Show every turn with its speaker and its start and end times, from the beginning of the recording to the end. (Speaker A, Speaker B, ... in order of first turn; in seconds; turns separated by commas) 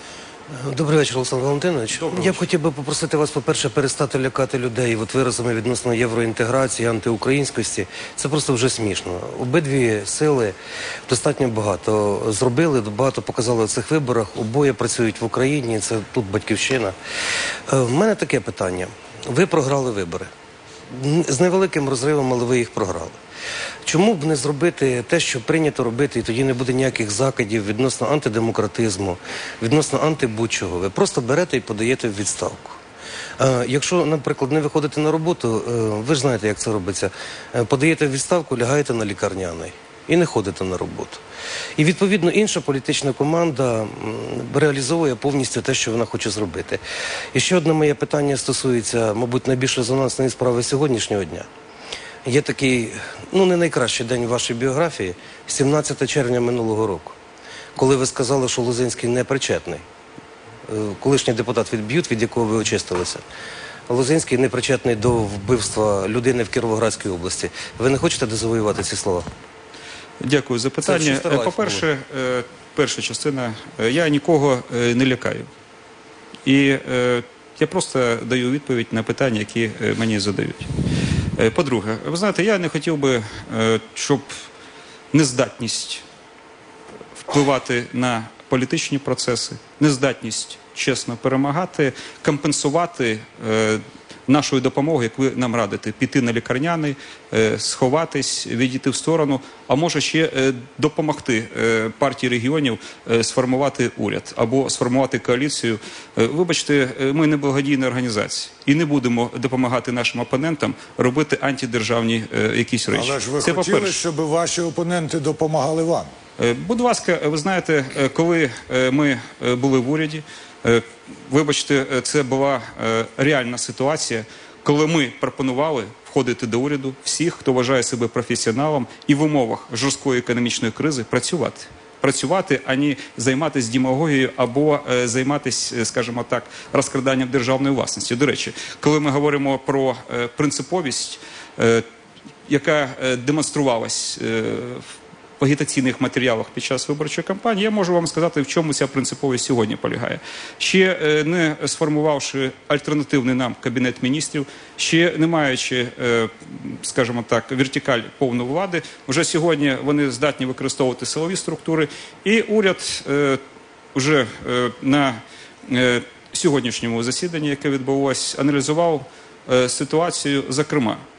Speaker A: 0.6-10.6, Speaker B: 2.0-2.5, Speaker A: 11.1-16.9, Speaker A: 17.7-20.3, Speaker A: 20.9-23.2, Speaker A: 23.9-32.8, Speaker A: 33.4-41.2, Speaker A: 41.8-46.8, Speaker A: 47.3-51.5, Speaker A: 52.2-57.1, Speaker A: 57.8-59.8, Speaker A: 60.7-63.2, Speaker A: 63.9-69.2, Speaker C: 70.2-75.5, Speaker A: 70.8-71.8, Speaker C: 76.5-80.7, Speaker C: 81.4-84.3, Speaker C: 85.1-86.0, Speaker C: 87.1-114.0, Speaker B: 112.9-116.1, Speaker C: 116.4-141.8, Speaker C: 142.5-144.8, Speaker C: 145.4-163.4, Speaker C: 163.9-171.0